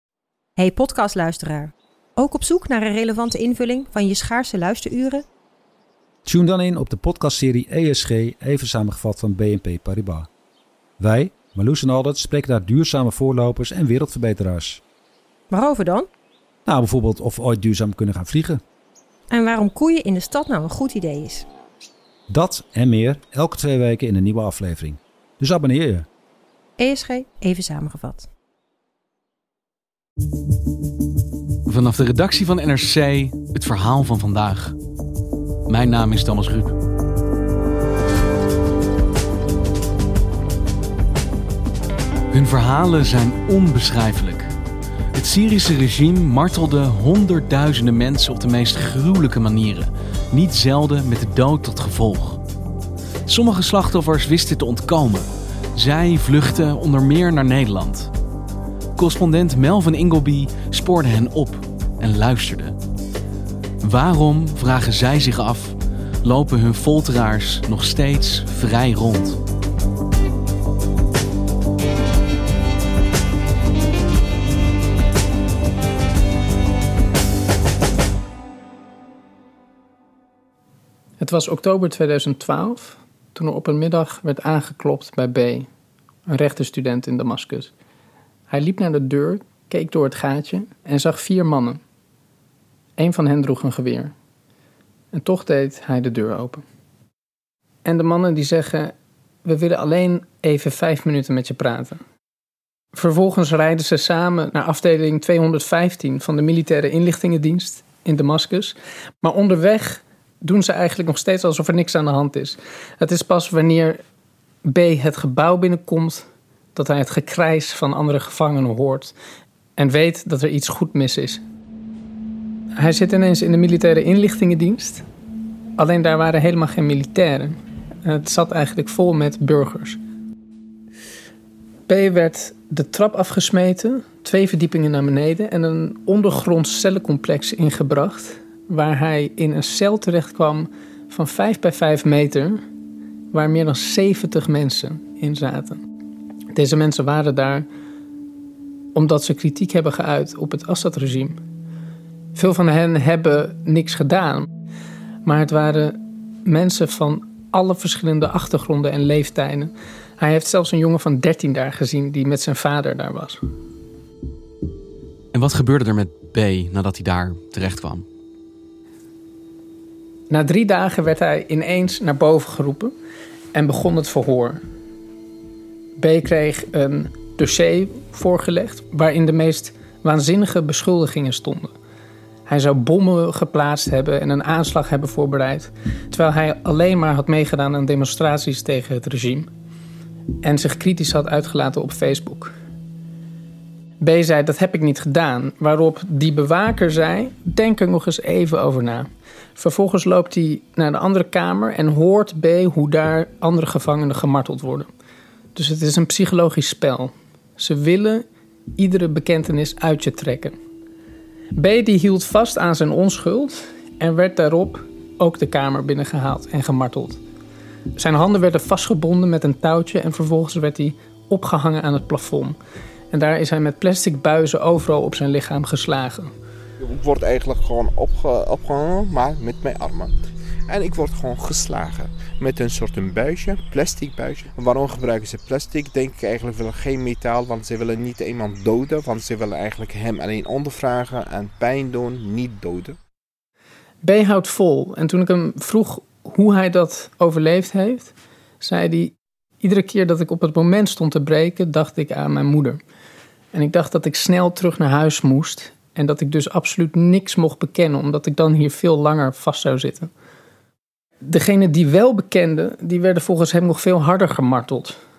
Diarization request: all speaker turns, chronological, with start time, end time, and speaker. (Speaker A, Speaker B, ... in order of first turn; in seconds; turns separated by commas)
Speaker A: 0.6-5.2, Speaker B: 6.2-10.3, Speaker B: 11.0-14.8, Speaker A: 15.5-16.1, Speaker B: 16.7-18.6, Speaker A: 19.3-21.5, Speaker B: 22.3-26.1, Speaker A: 26.8-28.3, Speaker C: 31.7-34.8, Speaker C: 35.7-36.7, Speaker C: 42.3-44.5, Speaker C: 45.1-52.4, Speaker C: 53.3-58.1, Speaker C: 59.0-62.8, Speaker C: 63.8-69.4, Speaker D: 81.2-85.7, Speaker D: 86.3-87.7, Speaker D: 88.5-91.8, Speaker D: 93.0-94.1, Speaker D: 95.1-96.6, Speaker D: 97.8-98.9, Speaker D: 99.5-102.0, Speaker D: 102.9-114.0, Speaker D: 114.7-119.1, Speaker D: 119.8-121.4, Speaker D: 122.8-125.0, Speaker D: 125.8-130.0, Speaker D: 131.9-142.6, Speaker D: 143.3-145.8, Speaker D: 146.5-147.7, Speaker D: 148.9-151.4, Speaker D: 152.3-154.5, Speaker D: 155.2-163.4, Speaker C: 165.3-168.1, Speaker D: 170.3-172.9, Speaker D: 173.5-174.6, Speaker D: 176.0-181.7, Speaker D: 182.5-189.5, Speaker D: 190.4-192.6, Speaker D: 194.0-204.9, Speaker D: 205.6-208.2, Speaker D: 208.8-210.6, Speaker D: 211.6-217.2, Speaker D: 218.0-222.6, Speaker D: 223.1-226.3, Speaker E: 226.8-230.1, Speaker E: 230.7-243.0, Speaker D: 244.0-252.8, Speaker D: 253.5-260.1, Speaker D: 261.2-265.0